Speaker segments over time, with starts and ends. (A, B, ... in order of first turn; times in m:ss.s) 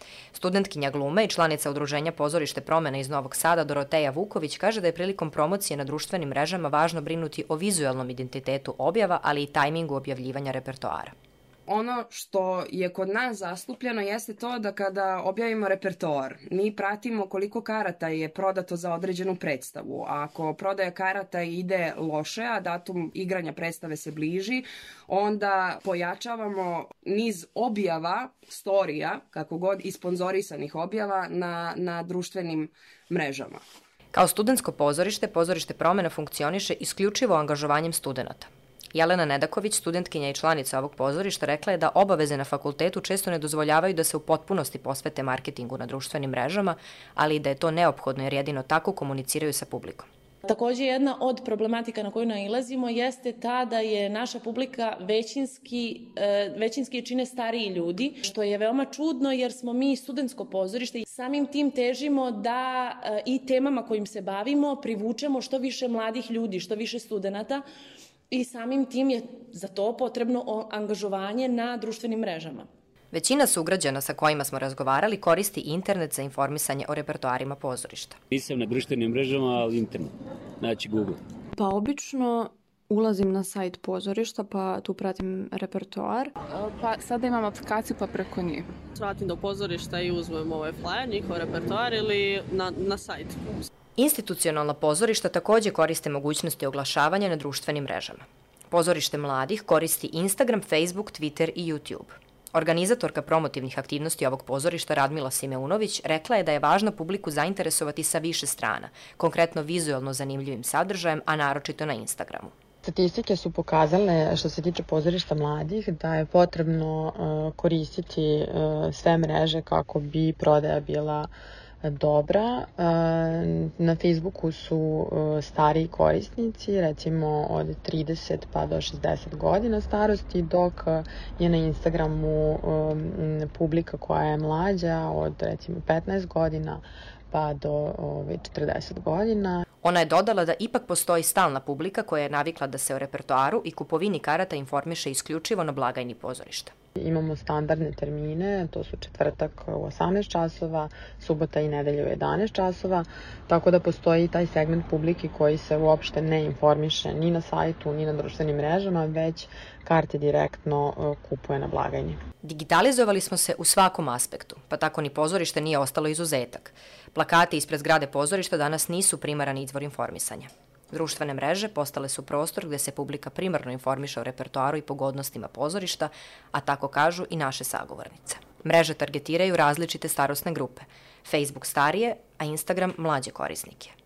0:00.3-0:11.1 A
0:11.7-0:33.6 B
0:34.1-0:50.1 A
0:50.5-1:07.6 C
1:08.3-1:12.6 C
1:13.1-1:18.2 A
1:18.3-1:20.1 D
1:20.6-1:21.2 D
1:21.6-1:22.5 E
1:23.0-1:26.2 E
1:26.5-1:28.7 F
1:29.0-1:33.6 G
1:34.0-1:52.5 A
1:52.8-2:01.3 H
2:01.8-2:19.6 H
2:19.8-2:26.7 A
2:27.0-2:42.2 H
2:42.4-3:03.9 A